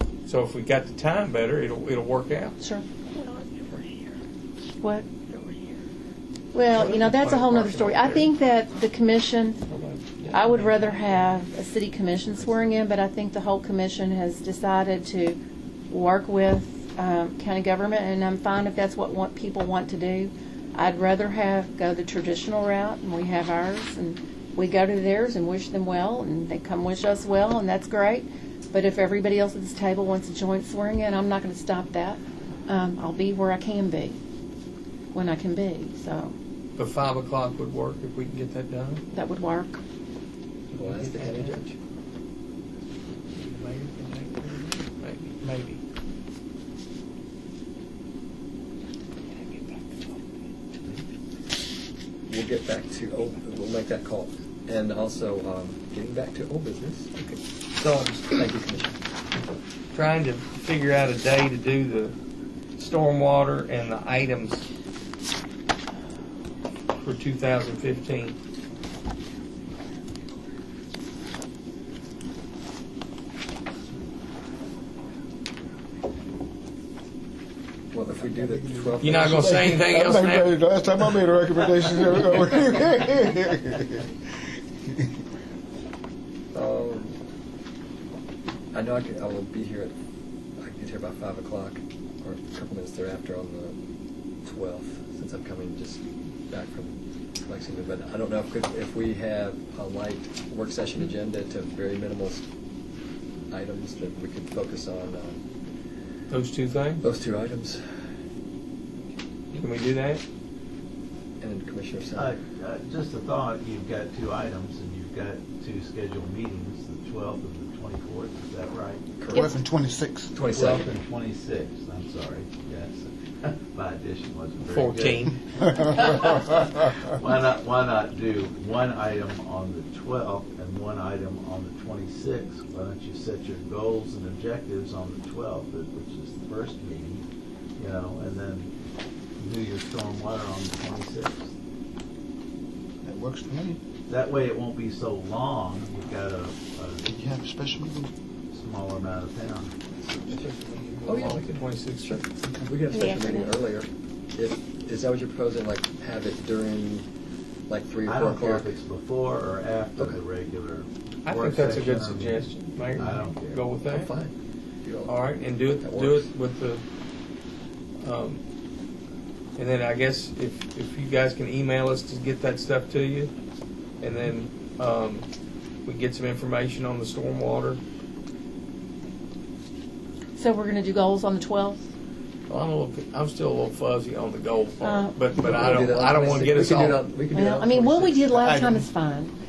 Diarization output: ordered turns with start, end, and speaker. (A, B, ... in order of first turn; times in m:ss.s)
0:00.3-0:02.6 A
0:02.6-0:03.3 B
0:04.8-0:05.8 B
0:06.5-0:09.6 B
0:06.7-0:08.3 A
0:09.7-0:11.4 A
0:10.3-0:15.4 B
0:12.4-0:12.7 A
0:15.9-0:34.2 B
0:35.1-0:36.4 B
0:36.8-0:39.0 A
0:39.1-0:39.8 B
0:40.7-0:41.7 A
0:40.7-0:41.6 C
0:43.3-0:45.8 A
0:49.5-0:50.2 A
0:52.3-0:57.1 C
0:57.2-0:58.2 A
0:58.2-0:59.0 C
0:59.9-1:02.2 A
1:02.8-1:04.7 A
1:07.0-1:08.4 A
1:17.9-1:19.8 C
1:18.2-1:24.1 D
1:19.0-1:20.7 A
1:26.5-1:27.2 C
1:28.7-1:29.9 C
1:30.6-1:33.8 C
1:34.4-1:42.4 C
1:43.5-1:45.4 C
1:46.3-1:47.0 A
1:47.0-1:48.1 C
1:49.5-1:50.2 A
1:51.4-1:52.4 C
1:52.2-1:59.0 E
1:59.2-1:59.5 C
1:59.4-2:00.4 D
2:00.3-2:00.9 C
2:00.4-2:17.2 E
2:04.7-2:05.4 A
2:17.8-2:18.7 E
2:19.4-2:21.5 E
2:23.0-2:23.8 D
2:24.1-2:27.1 E
2:27.0-2:28.1 D
2:28.5-2:29.7 E
2:30.0-2:30.5 C
2:30.3-2:32.3 A
2:31.0-2:37.1 C
2:32.4-2:32.7 D
2:32.9-2:33.5 B
2:37.7-2:38.7 C
2:38.0-2:43.7 E
2:41.2-2:44.1 A
2:43.8-2:45.2 C
2:45.1-2:46.8 A
2:45.8-2:46.3 C
2:48.0-2:48.4 A
2:49.6-2:53.3 A
2:54.0-2:55.3 A
2:55.9-2:57.8 A
3:00.4-3:01.9 B
3:02.5-3:07.0 A
3:04.8-3:05.2 B
3:05.4-3:08.4 C
3:07.3-3:09.3 B
3:08.4-3:08.9 D